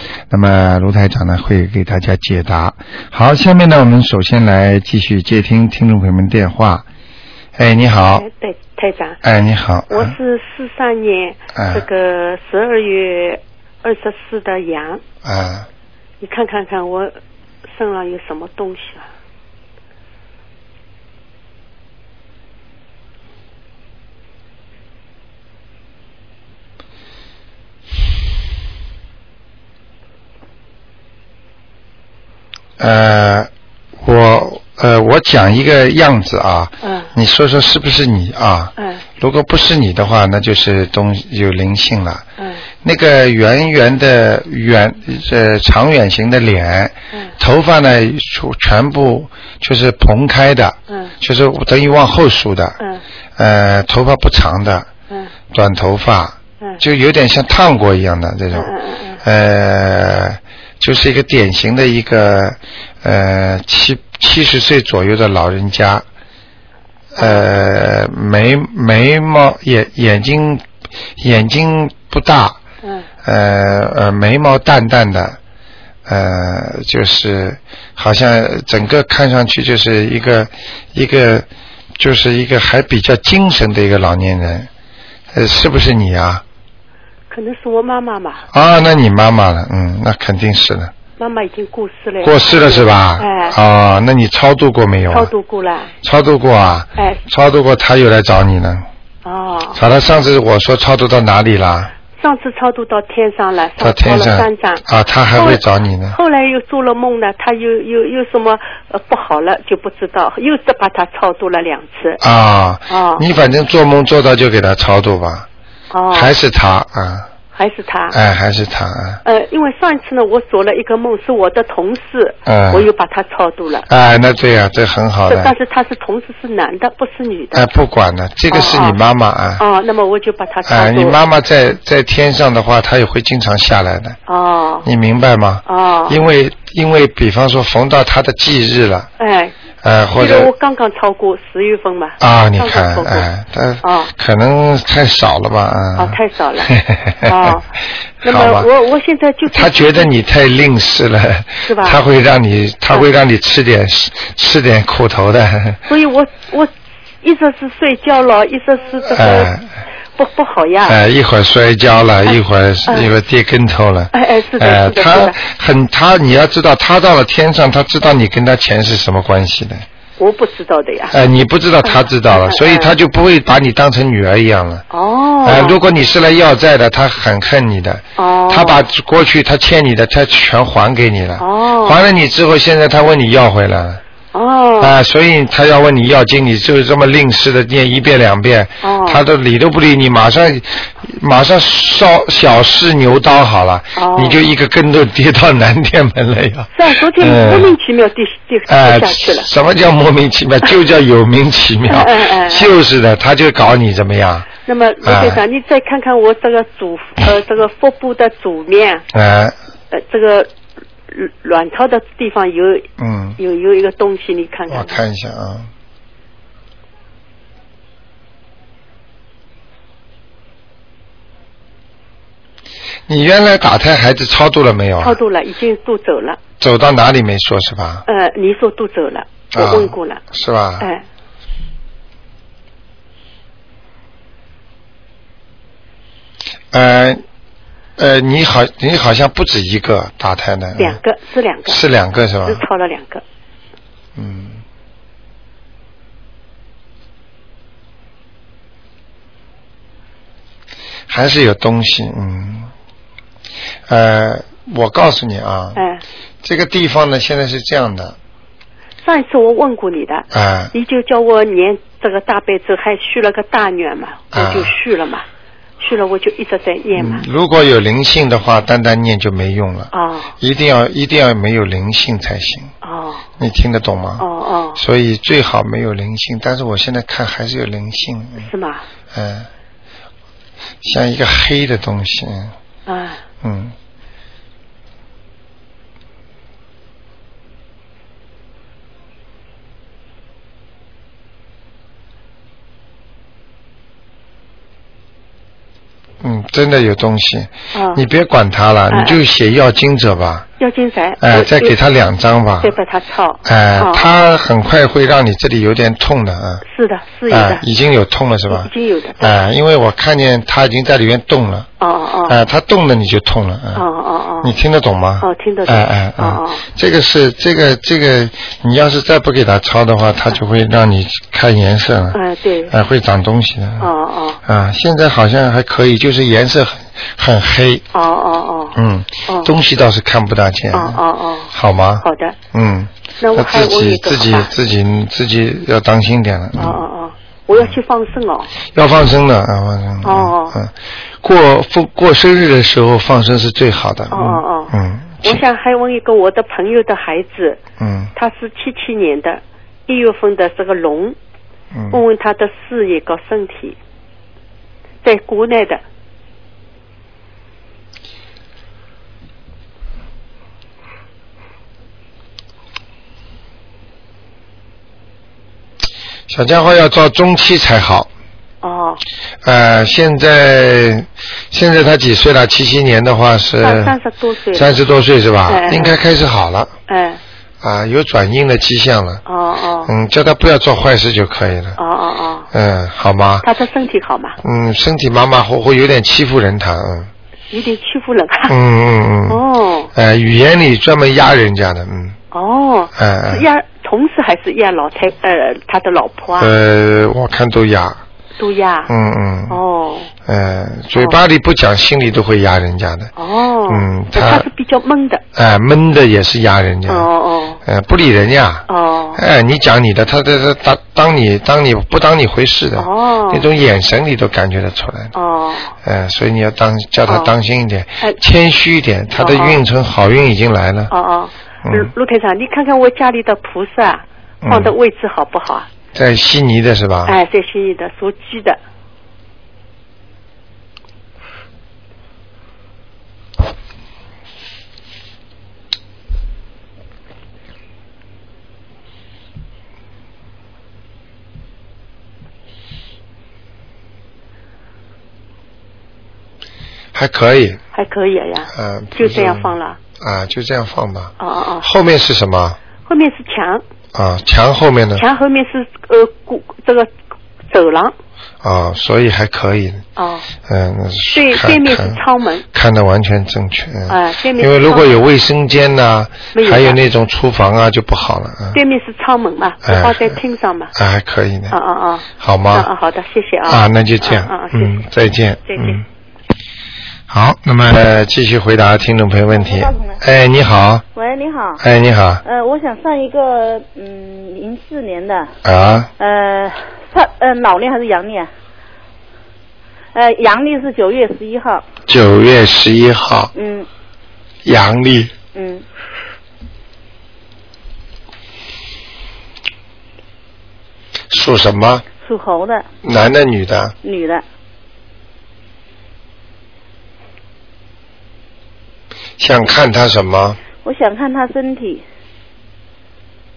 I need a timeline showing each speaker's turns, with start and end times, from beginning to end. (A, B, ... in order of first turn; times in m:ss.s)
0:00.3-0:06.8 A
0:07.6-0:08.2 A
0:08.1-0:09.2 B
0:09.2-0:10.1 A
0:09.9-0:15.0 B
0:11.5-0:11.8 A
0:15.2-0:15.7 A
0:16.2-0:17.1 B
0:17.7-0:19.1 B
0:32.8-0:33.5 A
0:34.0-0:42.2 A
0:36.8-0:37.1 B
0:38.8-0:39.0 B
0:42.8-0:52.8 A
0:53.4-0:54.9 A
0:55.5-1:06.0 A
0:58.5-0:59.2 B
1:07.2-1:10.6 A
1:07.2-1:07.5 B
1:11.2-1:12.6 A
1:13.2-1:15.4 A
1:16.1-1:24.7 A
1:25.3-1:26.4 A
1:27.3-1:28.4 B
1:28.5-1:30.9 A
1:31.2-1:33.6 B
1:32.2-1:35.3 A
1:35.1-1:35.9 B
1:36.0-1:38.9 A
1:39.2-1:39.8 B
1:39.7-1:41.9 A
1:42.2-1:44.8 B
1:43.8-1:46.2 A
1:45.4-1:52.2 B
1:52.2-1:55.5 A
1:52.9-1:53.2 B
1:55.9-1:56.3 B
1:56.1-1:57.3 A
1:57.6-1:58.2 B
1:58.1-1:59.2 A
1:59.2-2:03.9 B
2:02.4-2:02.9 A
2:03.9-2:05.5 A
2:05.3-2:07.7 B
2:07.5-2:09.6 A
2:08.5-2:09.0 B
2:09.6-2:11.2 B
2:10.7-2:14.2 A
2:14.3-2:14.9 B
2:14.8-2:19.1 A
2:15.7-2:16.2 B
2:19.2-2:19.5 B
2:19.8-2:20.5 A
2:20.2-2:23.3 B
2:22.2-2:27.5 A
2:23.8-2:24.1 B
2:26.0-2:27.6 B
2:28.2-2:28.7 A
2:28.2-2:30.2 B
2:29.5-2:35.8 A
2:31.7-2:32.0 B
2:35.9-2:36.7 B
2:37.2-2:39.5 B
2:39.0-2:39.6 A
2:40.2-2:41.0 B
2:40.8-2:49.8 A
2:42.9-2:43.1 B
2:44.1-2:45.4 B
2:50.2-2:51.2 B
2:51.1-2:54.8 A
2:51.8-2:53.0 B
2:54.9-2:55.8 B
2:55.4-3:04.0 A
2:58.2-2:58.8 B
3:01.4-3:02.0 B
3:04.3-3:05.0 B
3:04.8-3:17.7 A
3:08.8-3:09.2 B
3:14.0-3:14.4 B
3:16.7-3:19.5 B
3:18.7-3:24.5 A
3:21.9-3:22.8 B
3:24.6-3:29.0 B
3:25.0-3:25.4 A
3:29.1-3:29.5 A
3:29.9-3:30.5 B
3:31.1-3:32.8 B
3:33.0-3:33.4 A
3:33.4-3:35.0 B
3:34.7-3:35.7 A
3:43.1-3:45.2 A
3:45.0-3:46.4 B
3:46.6-3:48.0 A
3:48.1-3:50.2 B
3:49.5-3:50.9 A
3:56.7-3:57.2 A
3:58.0-4:01.0 A
4:00.8-4:01.8 B
4:01.7-4:02.6 A
4:02.5-4:03.2 B
4:04.2-4:04.6 A
4:11.1-4:12.7 A
4:13.9-4:15.8 A
4:15.8-4:16.0 B
4:16.4-4:18.2 A
4:19.0-4:25.2 B
4:20.3-4:20.7 A
4:24.3-4:24.8 A
4:25.8-4:27.2 B
4:26.9-4:32.7 A
4:29.9-4:30.3 B
4:32.8-4:33.2 B
4:33.4-4:38.5 A
4:34.2-4:34.8 B
4:38.4-4:38.8 B
4:39.1-4:39.5 A
4:40.8-4:42.5 A
4:42.9-4:43.2 B
4:43.4-4:43.8 A
4:56.2-5:00.5 A
4:57.7-4:58.0 B
4:58.9-4:59.2 B
5:00.6-5:01.8 B
5:01.2-5:02.8 A
5:02.6-5:04.1 B
5:03.4-5:06.6 A
5:06.7-5:07.6 B
5:07.3-5:11.7 A
5:08.5-5:09.4 B
5:11.8-5:12.4 B
5:12.2-5:13.8 A
5:13.8-5:14.6 B
5:14.4-5:23.9 A
5:15.2-5:16.6 B
5:22.1-5:22.7 B
5:23.8-5:24.4 B
5:24.5-5:27.8 A
5:27.9-5:28.8 B
5:28.8-5:31.0 A
5:30.7-5:32.4 B
5:31.5-5:36.8 A
5:33.2-5:34.5 B
5:36.6-5:38.5 B
5:38.7-5:45.4 A
5:40.0-5:40.6 B
5:44.1-5:47.6 B
5:47.8-5:48.1 A
5:48.2-5:51.2 B
5:51.7-5:52.0 A
5:51.9-5:53.8 B
5:55.0-5:55.8 B
6:06.3-6:08.1 A
6:08.6-6:09.0 B
6:09.4-6:14.0 A
6:13.6-6:14.8 B
6:14.5-6:16.7 A
6:15.5-6:16.0 B
6:16.9-6:17.2 B
6:17.6-6:19.2 A
6:19.2-6:19.9 B
6:19.9-6:21.8 A
6:21.8-6:22.5 B
6:22.5-6:23.5 A
6:23.4-6:24.4 B
6:24.4-6:27.1 A
6:27.5-6:28.6 B
6:28.5-6:29.4 A
6:29.3-6:29.9 B
6:29.9-6:32.2 A
6:32.3-6:36.5 B
6:33.0-6:33.5 A
6:36.4-6:38.0 A
6:38.4-6:38.9 B
6:38.9-6:39.6 A
6:39.5-6:40.1 B
6:40.2-6:43.1 A
6:43.2-6:45.2 B
6:43.7-6:44.5 A
6:45.4-6:47.1 A
6:46.9-6:47.6 B
6:47.6-6:55.1 A
6:48.7-6:49.2 B
6:52.8-6:53.5 B
6:55.1-6:55.7 B
6:55.8-7:00.9 A
6:57.1-6:57.3 B
6:59.2-6:59.6 B
7:00.9-7:05.7 B
7:01.6-7:01.9 A
7:04.4-7:04.7 A
7:05.9-7:07.2 A
7:07.1-7:08.6 B
7:26.9-7:27.6 A
7:27.8-7:29.8 B
7:28.5-7:32.6 A
7:31.2-7:31.7 B
7:32.9-7:33.6 B
7:33.9-7:35.0 A
7:35.0-7:36.9 B
7:37.5-7:37.9 B
7:38.4-7:39.8 A
7:40.0-7:40.3 B
7:40.5-7:42.0 A
7:41.1-7:42.4 B
7:42.5-7:48.6 A
7:43.9-7:45.0 B
7:46.3-7:46.8 B
7:48.5-7:50.7 B
7:49.7-7:50.2 A
7:50.8-7:51.6 A
7:51.5-7:54.9 B
7:52.2-7:52.7 A
7:53.4-7:55.8 A
7:55.5-7:55.8 B
7:57.1-8:00.8 A
7:59.4-8:00.0 C
8:00.9-8:01.6 C
8:01.6-8:02.2 A
8:02.2-8:05.3 C
8:05.4-8:05.9 A
8:06.0-8:08.3 C
8:09.9-8:11.6 C
8:11.9-8:13.3 A
8:13.3-8:13.7 C
8:14.4-8:15.1 A
8:15.3-8:15.6 C
8:21.1-8:21.8 A
8:22.0-8:22.7 C
8:22.8-8:23.8 A
8:23.8-8:24.2 C
8:29.2-8:30.4 A
8:30.6-8:31.8 C